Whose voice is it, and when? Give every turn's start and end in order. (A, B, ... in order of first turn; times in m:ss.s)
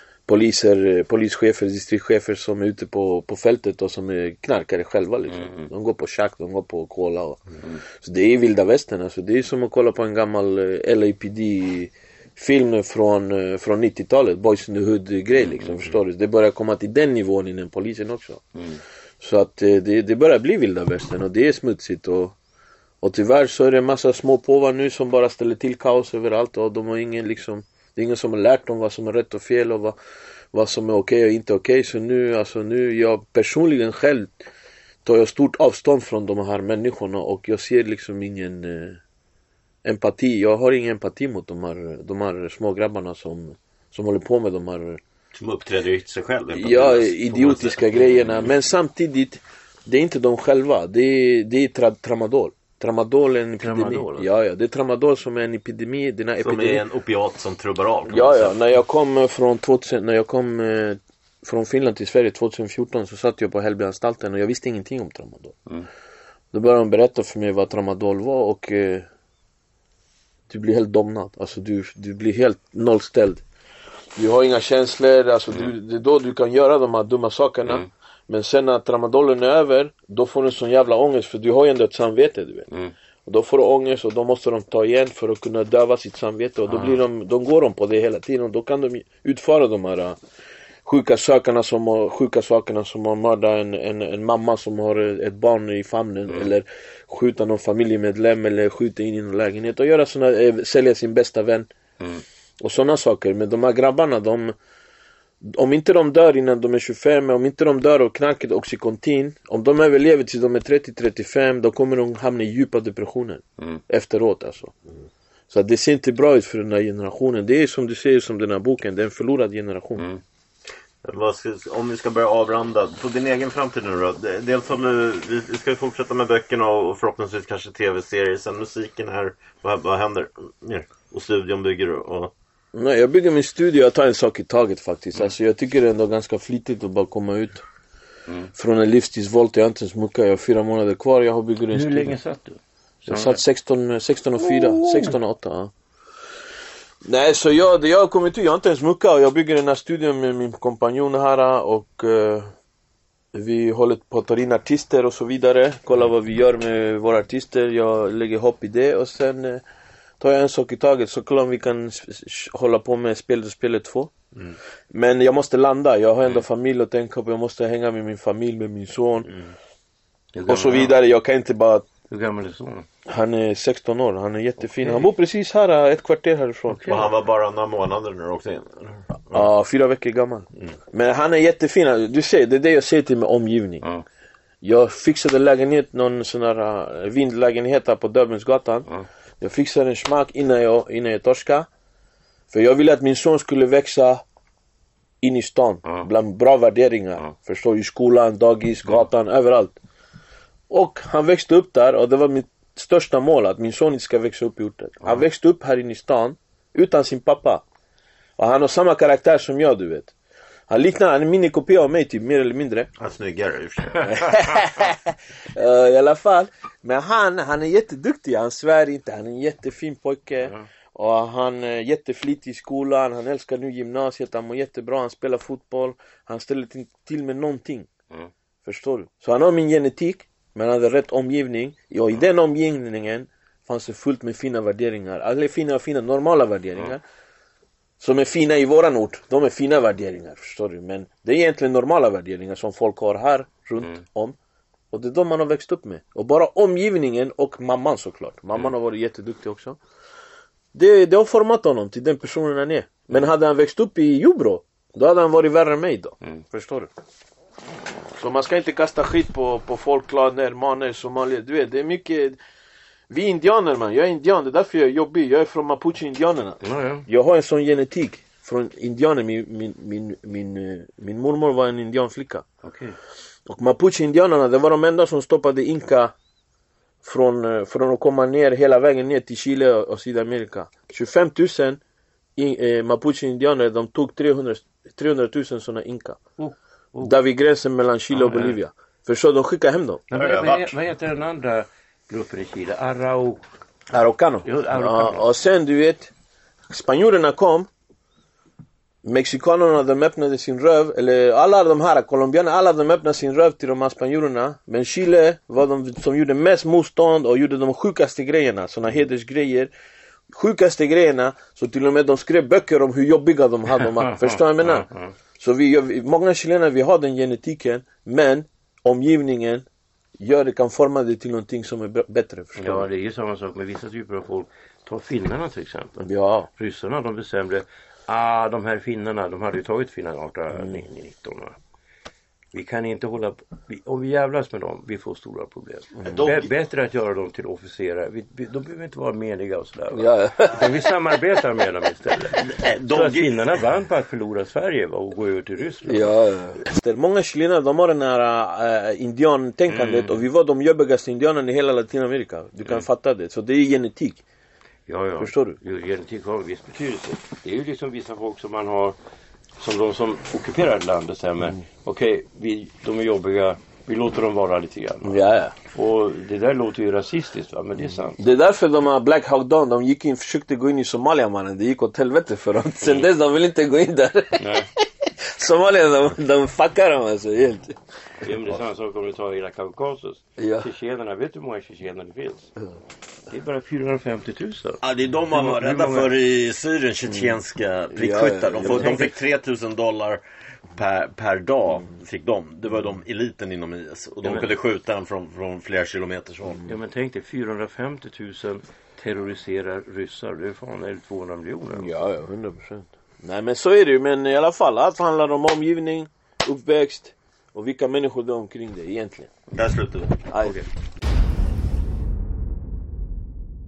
0:00.3-0:18.4 A
0:05.3-0:05.7 B
0:18.5-0:18.8 B
0:19.2-0:22.3 A
0:23.0-0:30.0 A
0:30.5-0:34.4 A
0:35.0-0:39.0 A
0:39.8-0:45.0 A
0:45.3-0:48.0 C
0:46.5-0:56.8 A
0:53.6-0:54.3 B
0:56.4-0:58.5 C
0:58.1-1:05.6 A
1:06.5-1:09.1 A
1:10.5-1:13.4 A
1:14.2-1:22.7 A
1:23.2-1:30.2 A
1:26.7-1:27.0 B
1:30.8-1:41.7 A
1:42.6-1:44.5 A
1:45.4-1:54.7 A
1:55.5-2:00.1 A
2:01.0-2:12.3 C
2:12.7-2:17.6 A
2:18.5-2:22.2 A
2:21.7-2:23.4 B
2:23.1-2:25.7 A
2:24.4-2:25.2 B
2:27.0-2:32.5 A
2:33.3-2:39.6 A
2:40.2-2:44.1 A
2:44.9-2:49.3 A
2:50.3-2:51.0 B
2:50.4-2:51.9 A
2:52.1-2:52.9 B
2:53.1-2:57.1 A
2:56.7-2:57.0 B
2:56.9-2:59.5 C
2:59.3-3:03.8 A
3:04.6-3:08.9 A
3:09.4-3:11.7 A
3:12.5-3:14.2 A
3:15.2-3:19.8 A
3:20.7-3:27.6 A
3:28.4-3:30.1 A
3:30.7-3:32.9 A
3:33.0-3:34.4 C
3:34.1-3:47.9 A
3:48.6-3:57.0 A
3:58.0-4:04.4 A
4:04.9-4:09.8 A
4:10.7-4:16.9 A
4:18.2-4:22.4 A
4:23.1-4:32.4 A
4:26.6-4:27.0 B
4:32.6-4:33.0 B
4:33.4-4:36.1 A
4:37.0-4:41.8 A
4:42.4-4:46.2 A
4:46.4-4:47.2 B
4:47.0-4:50.1 A
4:48.1-4:48.6 B
4:50.1-4:53.4 B
4:50.2-4:50.7 C
4:53.9-4:56.1 A
4:54.4-4:55.2 B
4:56.7-4:57.7 A
4:59.0-5:09.7 A
5:10.3-5:19.6 A
5:13.8-5:15.1 B
5:20.2-5:22.9 A
5:22.6-5:26.0 B
5:26.0-5:26.5 A
5:26.6-5:31.6 B
5:32.5-5:46.2 B
5:36.0-5:36.5 C
5:39.9-5:40.6 A
5:42.4-5:43.4 C
5:45.8-5:54.2 A
5:49.7-5:50.2 B
5:54.9-5:59.0 B
5:55.2-5:55.6 A
5:59.6-6:08.2 B
6:05.0-6:05.5 A
6:08.2-6:17.8 A
6:14.4-6:14.7 B
6:18.2-6:22.5 B
6:20.4-6:20.7 A
6:23.3-6:24.8 B
6:24.8-6:30.2 C
6:25.3-6:26.1 B
6:27.9-6:29.1 A
6:28.7-6:29.0 B
6:30.7-6:36.6 C
6:34.2-6:34.5 B
6:36.6-6:41.9 B
6:41.7-6:49.3 A
6:49.5-6:50.2 C
6:50.3-6:50.6 A